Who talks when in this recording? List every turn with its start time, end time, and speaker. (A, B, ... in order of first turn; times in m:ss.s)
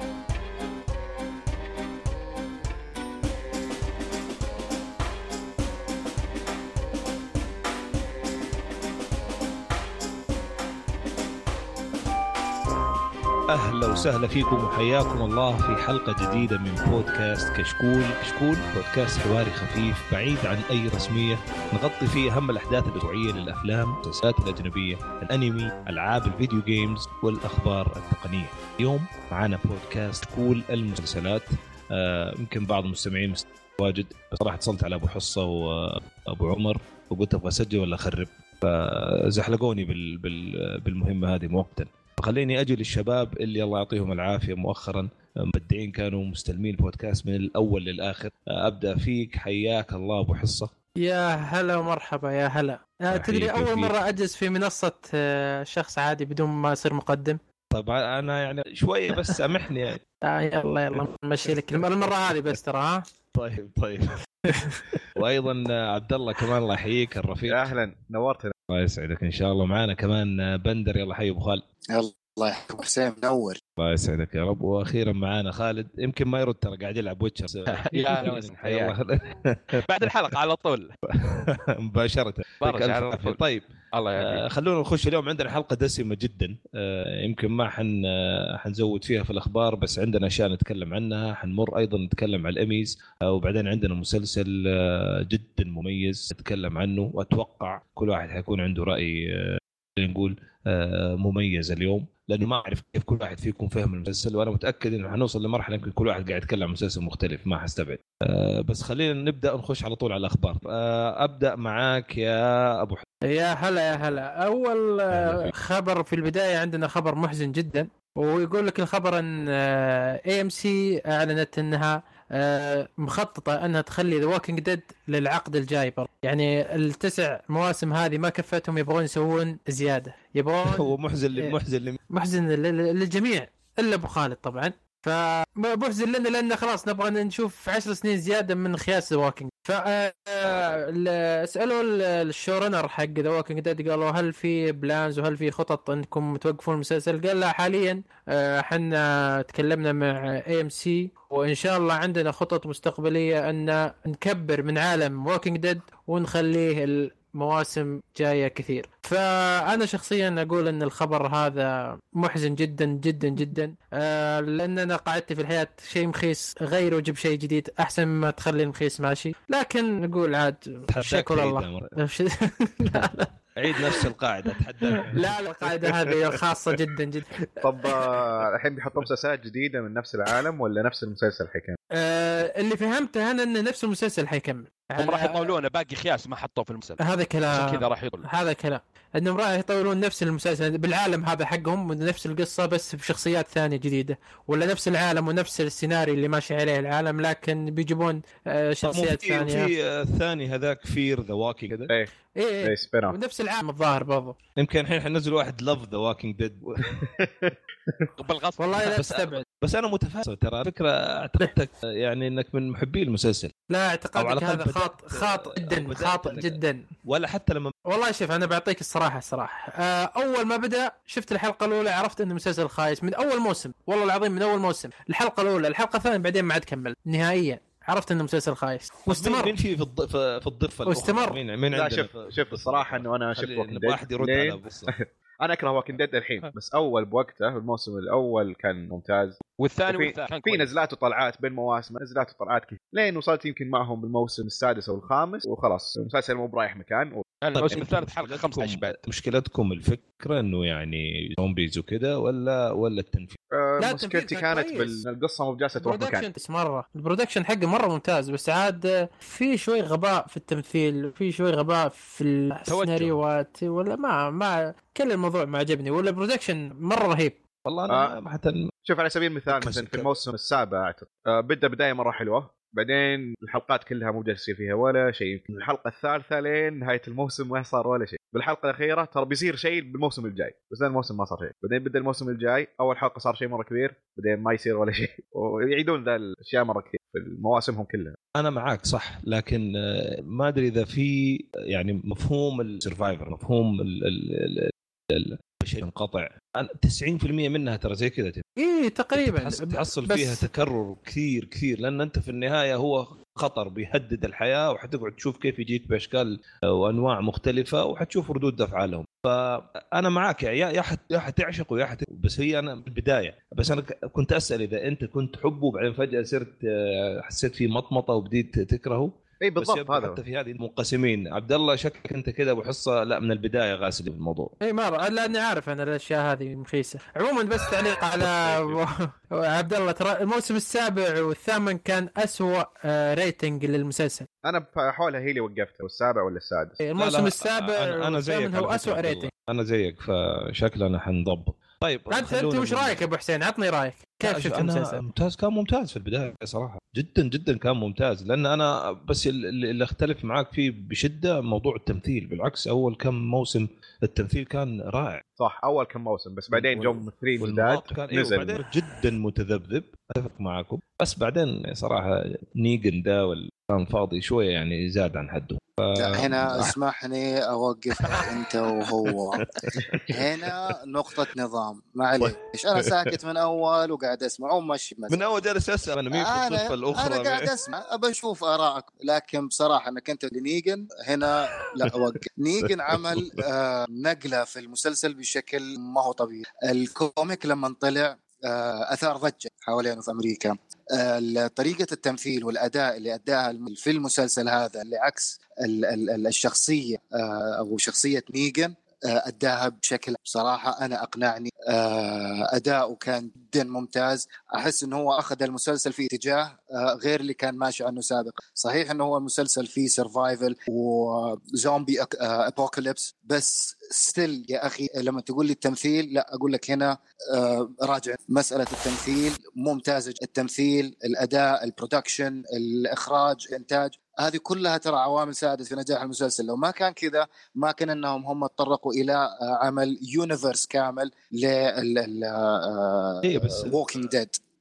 0:13.5-0:50.7 A
0:51.0-0:57.4 B
0:53.1-0:54.0 A
0:57.7-1:00.0 A
1:00.2-1:03.1 B
1:03.3-1:07.7 A
1:04.5-1:04.8 B
1:07.5-1:08.5 C
1:08.7-1:11.6 A
1:11.9-1:13.6 D
1:13.8-1:20.1 A
1:17.7-1:18.9 E
1:19.8-1:20.9 E
1:21.1-1:53.0 A
1:22.6-1:23.4 E
1:23.9-1:24.4 E
1:53.3-2:11.6 B
1:55.1-1:55.5 A
2:10.6-2:12.0 A
2:12.1-2:54.0 B
2:50.9-2:51.9 A
2:53.6-2:56.7 A
2:54.9-2:57.9 B
2:57.6-3:01.8 C
3:01.9-3:05.5 B
3:05.0-3:08.2 E
3:07.0-3:19.7 B
3:18.8-3:21.9 A
3:22.4-3:24.4 B
3:22.6-3:23.2 C
3:24.6-3:27.0 A
3:27.0-3:28.1 C
3:28.2-3:29.0 E
3:28.6-3:29.4 B
3:28.9-3:33.5 A
3:33.7-3:36.8 B
3:34.2-3:37.7 A
3:37.9-3:49.5 B
3:49.1-3:54.9 A
3:50.8-3:51.4 B
3:51.7-4:07.8 C
3:59.6-4:00.7 E
4:07.4-4:09.0 E
4:07.5-4:13.4 A
4:13.5-4:16.2 C
4:13.8-4:15.0 B
4:15.8-4:27.4 B
4:22.7-4:23.1 E
4:27.6-4:28.7 A
4:28.8-4:48.2 C
4:29.5-4:30.1 A
4:48.3-4:58.4 A
4:58.6-5:00.4 B
4:59.1-5:24.5 A
5:19.4-5:20.2 C
5:24.6-5:34.3 B
5:28.2-5:28.8 A
5:34.4-5:36.8 C
5:36.8-5:39.3 B
5:37.0-5:43.0 A
5:42.1-5:45.0 B
5:44.2-5:55.2 A
5:55.4-5:58.6 C
5:56.5-6:06.7 A
6:05.9-6:15.2 D
6:09.3-6:10.7 A
6:12.2-6:13.1 A
6:15.1-6:17.5 A
6:16.1-7:14.4 D
6:21.5-6:21.9 A
6:22.7-6:23.4 A
7:13.2-7:13.8 A